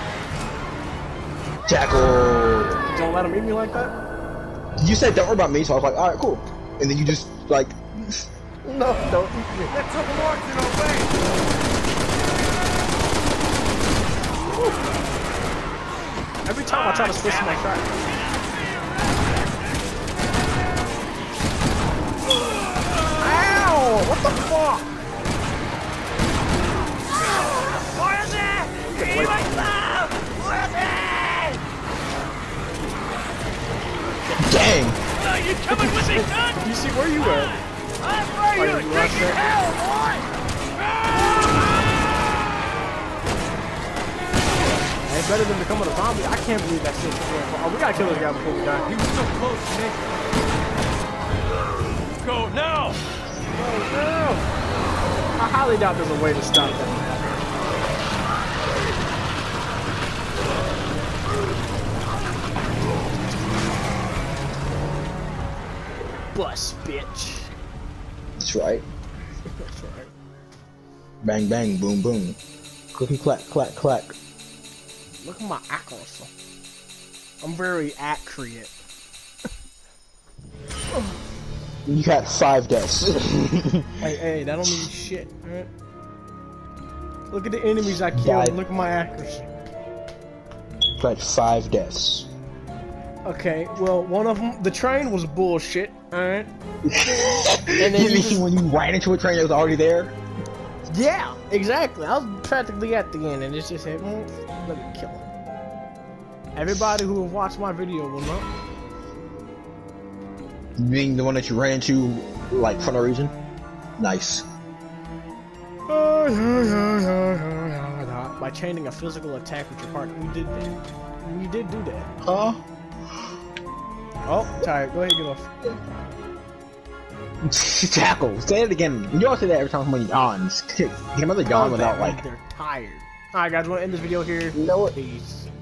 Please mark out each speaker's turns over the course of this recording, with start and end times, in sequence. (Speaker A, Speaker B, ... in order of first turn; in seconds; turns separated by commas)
Speaker A: 1.7-2.8, Speaker B: 2.9-3.9, Speaker A: 4.8-8.1, Speaker B: 8.6-9.8, Speaker C: 9.7-11.2, Speaker B: 16.5-17.9, Speaker C: 16.7-17.7, Speaker B: 23.2-24.9, Speaker C: 27.2-31.6, Speaker B: 28.9-29.8, Speaker A: 34.4-35.0, Speaker C: 35.2-36.7, Speaker B: 35.7-37.6, Speaker C: 37.2-42.0, Speaker B: 38.6-39.4, Speaker B: 44.8-48.9, Speaker C: 48.9-50.2, Speaker C: 52.2-53.0, Speaker B: 53.5-54.5, Speaker B: 55.4-57.5, Speaker B: 66.3-67.5, Speaker A: 68.4-68.8, Speaker B: 69.5-70.1, Speaker A: 71.2-72.4, Speaker A: 72.9-74.2, Speaker B: 75.2-76.3, Speaker B: 77.4-78.8, Speaker A: 81.9-84.1, Speaker B: 84.0-85.7, Speaker B: 87.3-89.5, Speaker A: 88.1-88.6, Speaker A: 91.0-92.3, Speaker B: 93.2-96.5, Speaker A: 96.8-100.1, Speaker B: 97.8-98.5, Speaker B: 100.9-105.3, Speaker B: 106.5-108.5, Speaker A: 110.8-113.3, Speaker A: 114.0-114.5, Speaker B: 115.9-122.1, Speaker A: 122.2-122.6, Speaker B: 124.3-125.5, Speaker A: 127.4-132.2, Speaker B: 131.5-135.5, Speaker A: 134.5-134.9